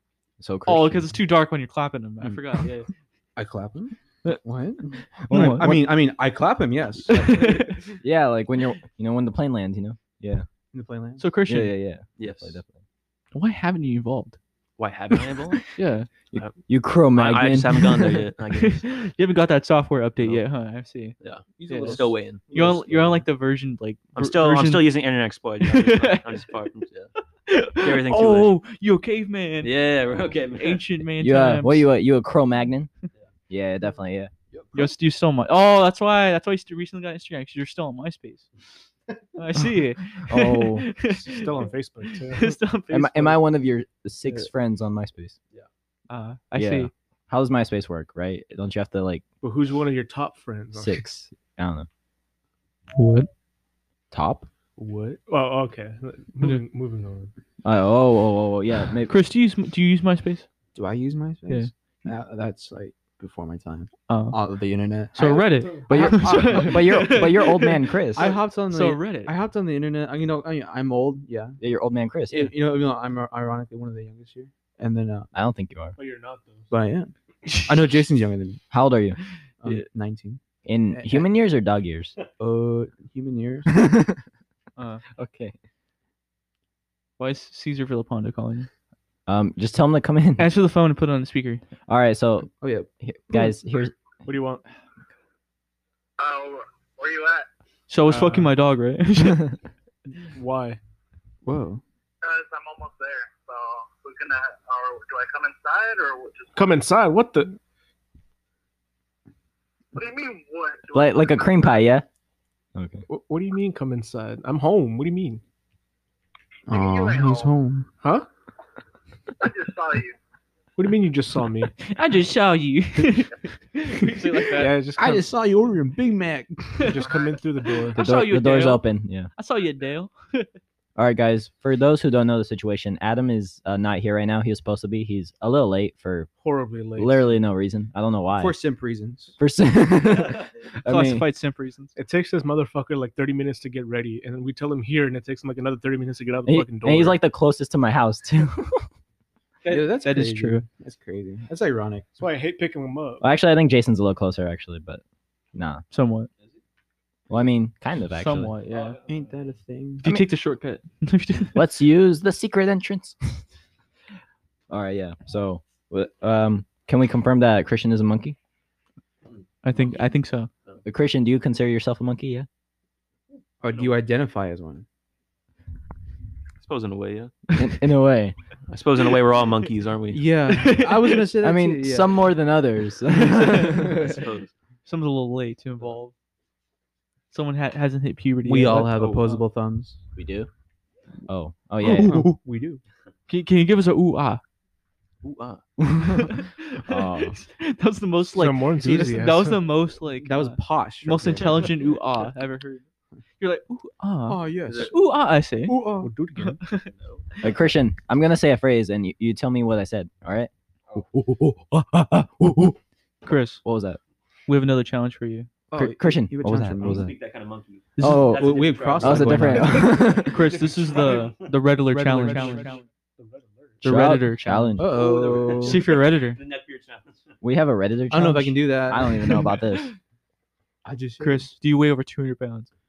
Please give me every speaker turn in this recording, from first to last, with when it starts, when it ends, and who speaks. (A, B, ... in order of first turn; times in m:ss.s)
0:00.4-0:01.2 A
0:00.6-0:02.9 B
0:03.4-0:07.9 C
0:05.3-0:05.8 B
0:05.3-0:05.8 A
0:07.1-0:07.8 B
0:08.0-0:10.5 A
0:10.7-0:11.2 C
0:11.2-0:11.8 B
0:11.5-0:12.8 A
0:12.2-0:12.6 D
0:13.3-0:14.4 B
0:14.8-0:15.6 D
0:15.8-0:16.1 B
0:16.3-0:18.2 A
0:17.1-0:18.9 D
0:18.6-0:21.1 B
0:21.2-0:22.5 D
0:21.7-0:24.9 B
0:22.5-0:23.1 C
0:24.1-0:27.1 D
0:25.6-0:26.5 B
0:27.5-0:29.8 B
0:27.8-0:28.6 D
0:29.6-0:30.8 D
0:30.5-0:31.9 B
0:31.2-0:32.9 A
0:33.5-0:34.3 A
0:34.8-0:38.5 B
0:39.4-0:43.4 B
0:40.3-0:40.9 A
0:41.0-0:42.6 E
0:42.9-0:45.4 A
0:46.1-0:46.9 B
0:46.6-0:49.2 A
0:49.4-0:51.0 E
0:50.8-0:51.9 A
0:53.0-0:53.3 B
0:54.1-0:54.5 A
0:54.8-0:57.3 E
0:57.6-0:59.2 A
0:59.1-1:00.5 B
1:00.8-1:07.2 C
1:04.1-1:04.4 B
1:05.1-1:09.3 B
1:05.9-1:08.4 A
1:08.1-1:11.6 C
1:11.6-1:12.5 A
1:12.3-1:15.3 C
1:15.3-1:16.0 A
1:16.0-1:16.7 E
1:16.7-1:18.6 C
1:18.7-1:19.2 A
1:19.6-1:20.4 C
1:20.6-1:22.1 A
1:20.9-1:21.3 C
1:22.4-1:23.8 C
1:23.7-1:24.2 A
1:24.8-1:25.0 B
1:25.2-1:25.6 A
1:27.2-1:28.7 B
1:29.3-1:30.5 A
1:30.4-1:31.6 B
1:31.9-1:34.0 A
1:32.6-1:32.9 C
1:34.2-1:34.6 E
1:36.2-1:37.5 F
1:37.9-1:39.6 B
1:38.0-1:38.6 E
1:40.3-1:40.8 E
1:41.4-1:41.8 C
1:42.2-1:46.7 F
1:46.6-1:47.6 E
1:49.9-1:51.5 F
1:50.9-1:52.0 A
1:52.8-1:53.0 A
1:53.1-1:55.4 E
1:56.7-1:57.9 C
1:56.7-1:57.5 F
1:58.0-1:58.3 E
1:59.4-2:00.1 F
2:00.8-2:01.7 E
2:01.8-2:04.7 B
2:04.4-2:05.2 E
2:04.5-2:07.2 C
2:06.8-2:08.0 E
2:07.9-2:10.5 B
2:08.0-2:09.3 A
2:11.0-2:16.3 A
2:16.4-2:17.3 E
2:17.0-2:18.6 A
2:18.4-2:19.4 C
2:19.4-2:21.2 A
2:20.8-2:21.9 B
2:22.0-2:27.2 E
2:26.5-2:28.9 A
2:29.6-2:30.6 B
2:29.6-2:32.3 C
2:32.2-2:33.2 E
2:33.2-2:35.0 A
2:35.6-2:35.8 A
2:35.9-2:36.3 B
2:37.3-2:38.5 A
2:38.1-2:39.0 B
2:38.7-2:39.2 D
2:39.1-2:40.0 C
2:40.0-2:41.6 B
2:41.6-2:43.4 A
2:44.7-2:48.4 A
2:49.6-2:50.5 B
2:50.8-2:52.5 A
2:53.6-2:54.9 C
2:56.6-2:57.3 D
2:57.5-2:57.8 B
2:57.6-2:58.4 A
2:58.7-3:00.2 D
3:00.1-3:02.1 C
3:00.5-3:01.3 B
3:01.4-3:04.1 A
3:03.2-3:04.0 B
3:03.8-3:04.5 D
3:04.9-3:06.1 B
3:07.3-3:09.3 B
3:08.4-3:10.0 C
3:09.0-3:09.4 D
3:10.2-3:10.5 A
3:11.3-3:12.2 A
3:11.8-3:12.4 B
3:11.9-3:12.8 C
3:13.3-3:14.4 B
3:15.2-3:15.6 D
3:15.8-3:16.2 A
3:16.1-3:22.8 B
3:16.9-3:17.4 A
3:18.3-3:19.6 E
3:18.8-3:19.4 C
3:20.2-3:21.8 C
3:23.4-3:25.8 B
3:24.2-3:25.1 C
3:24.6-3:25.0 D
3:25.6-3:26.1 C
3:26.0-3:26.6 E
3:26.6-3:26.9 B
3:26.9-3:27.2 D
3:27.4-3:32.8 A
3:33.2-3:33.6 B
3:33.6-3:34.0 A
3:34.5-3:35.5 B
3:35.7-3:37.1 C
3:35.8-3:37.1 A
3:36.8-3:41.6 D
3:38.0-3:38.4 B
3:38.0-3:40.5 A
3:38.3-3:40.2 C
3:39.5-3:42.8 B
3:40.4-3:43.9 E
3:43.8-3:44.8 B
3:43.8-3:45.0 A
3:44.8-3:45.9 C
3:44.8-3:47.4 D
3:45.6-3:46.4 B
3:47.4-3:49.9 A
3:48.1-3:49.6 C
3:50.8-3:51.5 C
3:51.2-3:52.7 B